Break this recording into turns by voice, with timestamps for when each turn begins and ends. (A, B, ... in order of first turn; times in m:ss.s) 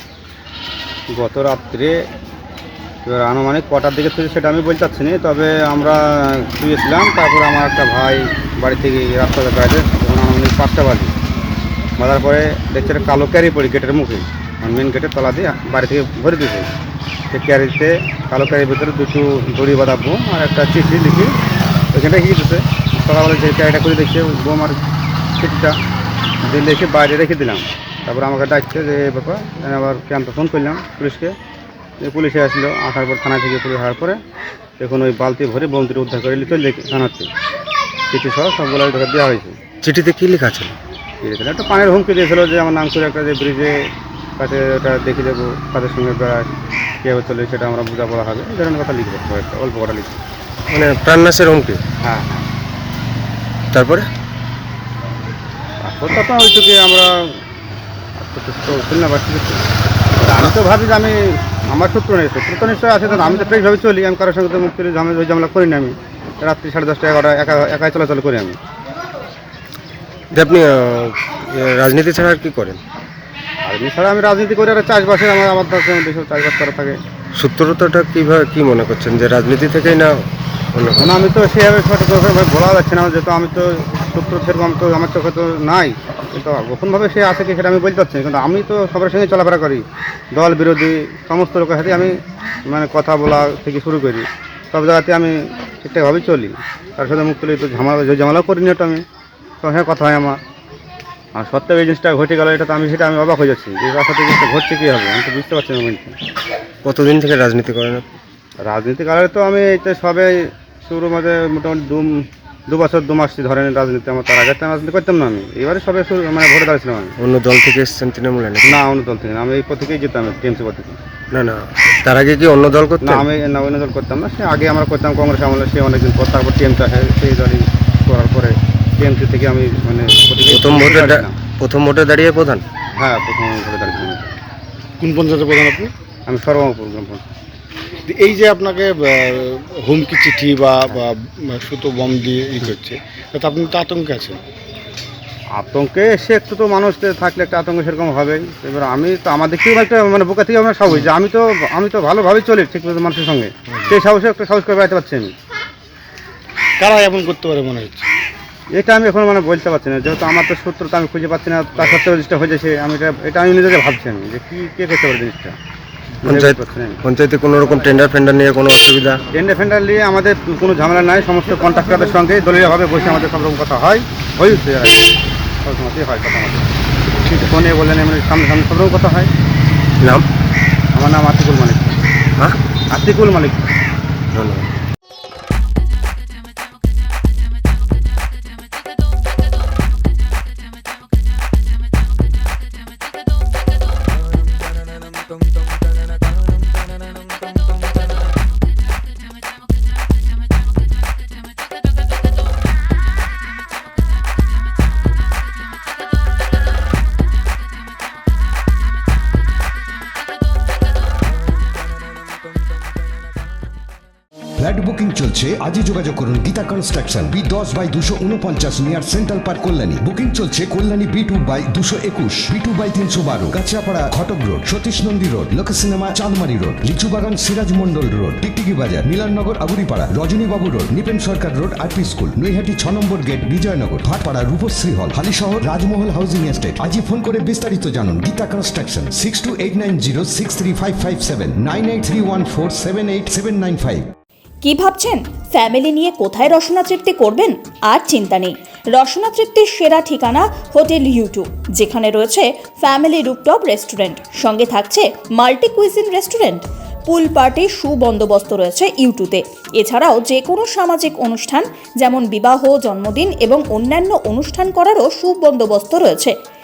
0:01.1-0:01.9 A
0:03.0-0:11.1 A
0:12.0-0:16.7 A
0:17.3-0:21.3 A
0:21.9-0:24.8 A
0:25.4-0:25.8 A
0:26.4-0:31.3 A
0:32.0-0:34.2 A
0:34.8-0:37.3 A
0:38.1-0:39.6 A
0:39.8-0:40.7 B
0:41.2-0:43.7 A
0:44.4-0:46.5 A
0:47.0-0:50.2 A
0:50.7-0:51.8 B
0:52.0-0:52.5 A
0:53.7-0:54.1 B
0:55.8-0:57.3 A
0:58.2-0:59.6 A
1:00.2-1:08.6 A
1:10.3-1:12.8 B
1:13.6-1:17.0 A
1:17.4-1:21.2 B
1:21.0-1:32.1 A
1:32.6-1:39.0 A
1:39.6-1:40.4 A
1:41.3-1:46.2 A
1:46.8-1:48.0 B
1:48.6-1:57.1 A
1:57.2-1:58.8 B
1:58.6-2:01.0 A
2:01.3-2:03.3 B
2:03.0-2:11.3 A
2:10.5-2:12.6 B
2:13.0-2:14.3 A
2:15.0-2:15.9 C
2:16.3-2:17.2 A
2:18.1-2:24.4 C
2:25.6-2:35.3 A
2:33.7-2:33.9 C
2:36.8-2:38.1 C
2:38.7-2:45.6 A
2:46.2-2:47.0 A
2:46.2-2:49.2 B
2:49.3-2:55.0 A
2:55.6-2:56.7 A
2:57.2-2:57.6 C
2:57.5-2:59.3 A
3:00.9-3:02.0 A
3:02.9-3:03.7 A
3:04.3-3:04.6 B
3:34.6-4:04.1 D
4:04.7-4:26.3 E